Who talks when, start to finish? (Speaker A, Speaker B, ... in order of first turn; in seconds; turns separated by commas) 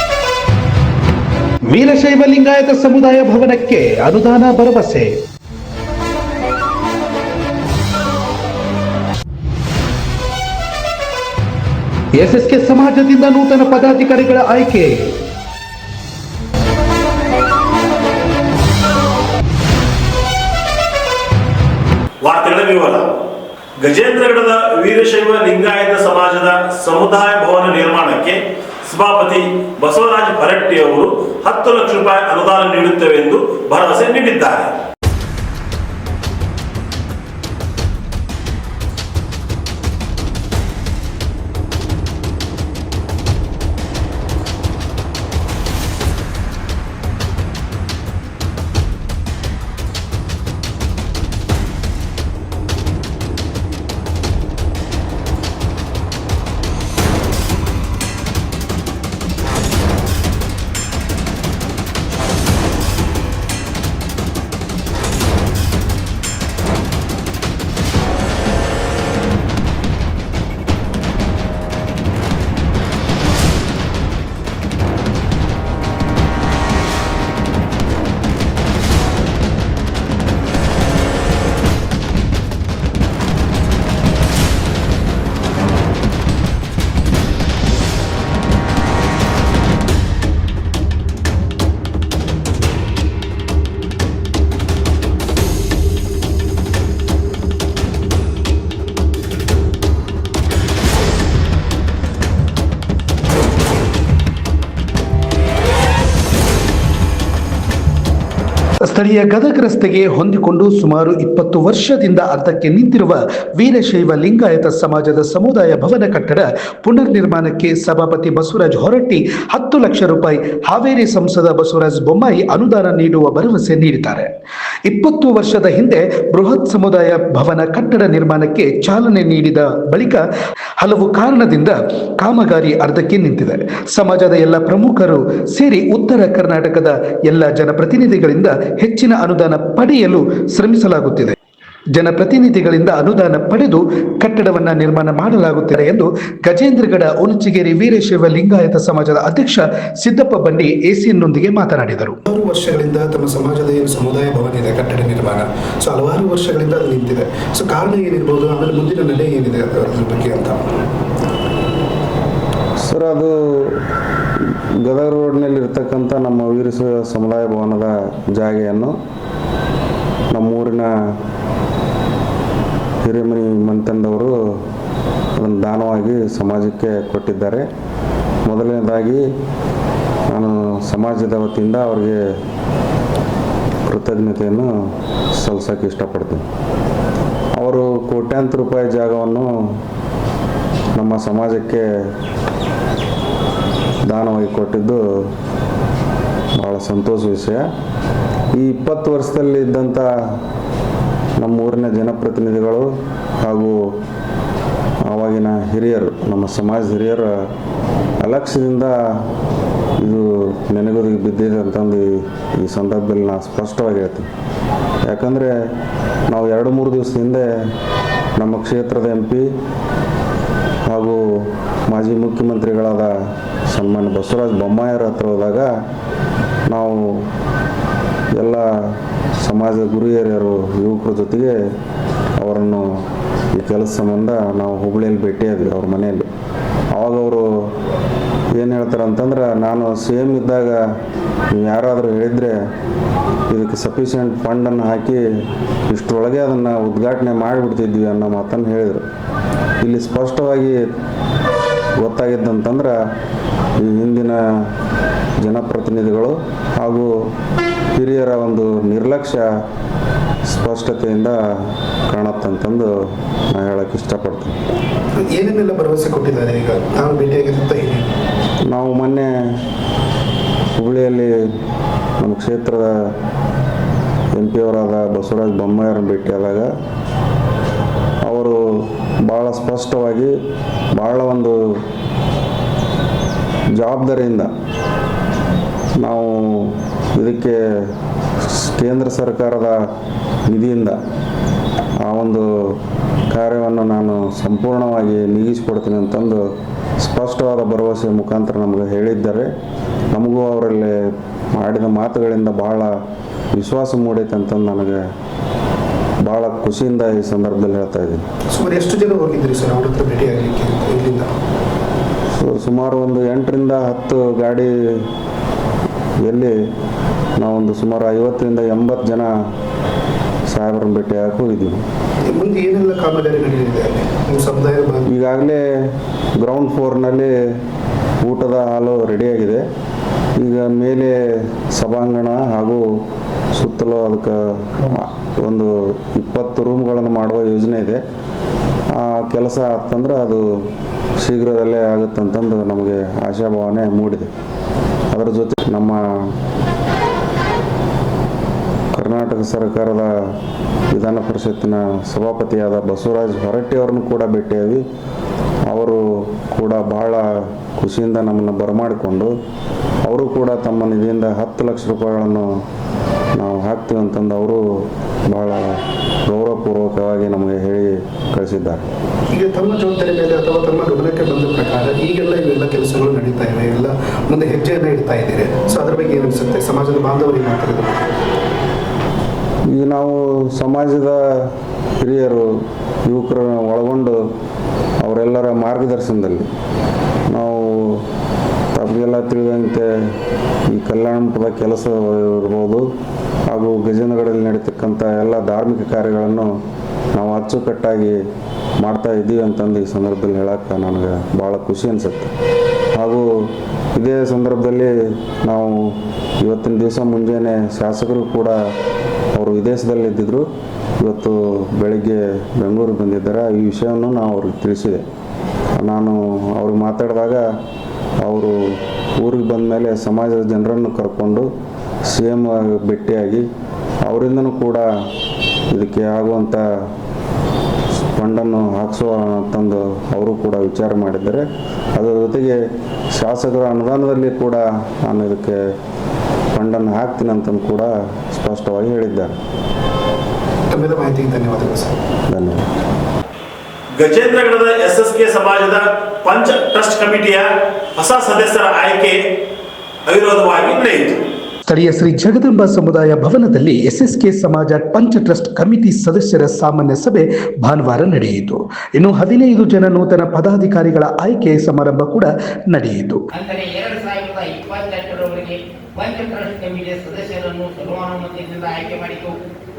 Speaker A: 1.7-5.1, Speaker A: 12.2-15.1, Speaker B: 22.2-23.1, Speaker B: 23.8-34.7, Speaker A: 108.9-124.3, Speaker A: 124.9-130.2, Speaker A: 130.8-141.4, Speaker A: 141.9-152.2, Speaker C: 152.3-160.6, Speaker D: 162.9-163.8, Speaker D: 164.8-169.0, Speaker D: 170.3-171.2, Speaker D: 173.0-174.6, Speaker D: 175.4-177.7, Speaker D: 178.4-179.2, Speaker D: 180.3-182.2, Speaker D: 183.9-184.7, Speaker D: 185.4-186.4, Speaker D: 187.6-189.8, Speaker D: 190.9-191.9, Speaker D: 194.1-195.3, Speaker D: 196.6-197.7, Speaker D: 198.5-200.4, Speaker D: 201.4-202.9, Speaker D: 203.4-203.8, Speaker D: 205.1-207.3, Speaker D: 208.2-209.3, Speaker D: 210.0-214.3, Speaker D: 215.1-215.6, Speaker D: 216.3-217.5, Speaker D: 218.4-219.5, Speaker D: 220.9-223.1, Speaker D: 223.7-225.7, Speaker D: 226.7-227.3, Speaker D: 228.4-231.6, Speaker D: 232.4-232.9, Speaker D: 233.5-236.3, Speaker D: 236.9-237.7, Speaker D: 238.6-240.8, Speaker D: 241.5-242.6, Speaker D: 243.5-245.2, Speaker D: 245.9-249.1, Speaker D: 249.8-250.8, Speaker D: 252.0-253.0, Speaker D: 253.8-254.7, Speaker D: 255.4-257.1, Speaker D: 258.0-259.5, Speaker D: 260.5-261.4, Speaker D: 262.1-262.9, Speaker D: 263.5-264.6, Speaker C: 265.2-268.1, Speaker D: 268.7-269.3, Speaker D: 270.8-271.4, Speaker D: 272.2-273.1, Speaker D: 274.4-276.7, Speaker D: 278.2-280.3, Speaker D: 280.9-281.6, Speaker D: 283.8-284.5, Speaker D: 286.0-287.9, Speaker D: 288.4-289.8, Speaker D: 290.5-291.0, Speaker D: 292.1-292.8, Speaker D: 293.3-296.4, Speaker D: 297.0-299.5, Speaker D: 300.1-301.0, Speaker D: 301.6-302.9, Speaker D: 303.6-305.0, Speaker D: 306.2-308.2, Speaker C: 308.5-311.3, Speaker D: 312.4-315.1, Speaker D: 316.2-316.6, Speaker D: 317.4-319.3, Speaker D: 320.5-321.8, Speaker C: 322.2-325.1, Speaker D: 325.1-325.6, Speaker D: 326.4-327.3, Speaker D: 328.2-329.6, Speaker D: 330.4-332.9, Speaker D: 333.5-338.0, Speaker D: 339.0-340.4, Speaker D: 341.2-344.3, Speaker D: 345.1-346.3, Speaker D: 348.9-350.1, Speaker D: 350.9-354.8, Speaker D: 355.7-359.3, Speaker D: 360.1-362.5, Speaker D: 363.4-364.6, Speaker D: 365.3-368.9, Speaker C: 369.3-378.0, Speaker D: 379.7-382.5, Speaker D: 383.1-384.2, Speaker D: 385.0-386.5, Speaker D: 387.3-388.1, Speaker D: 388.7-390.1, Speaker D: 390.7-392.9, Speaker D: 393.5-396.6, Speaker D: 397.1-398.2, Speaker D: 398.8-402.3, Speaker D: 402.9-408.6, Speaker D: 409.4-410.4, Speaker D: 411.0-415.0, Speaker D: 415.8-417.4, Speaker D: 418.2-421.5, Speaker D: 422.1-423.5, Speaker D: 424.1-424.9, Speaker D: 425.7-426.6, Speaker D: 428.1-431.4, Speaker D: 432.0-432.6, Speaker D: 433.2-435.6, Speaker D: 436.5-439.4, Speaker C: 440.7-442.0, Speaker D: 442.3-442.6, Speaker B: 444.0-449.2, Speaker B: 450.1-451.2, Speaker A: 451.7-463.2, Speaker E: 463.3-469.4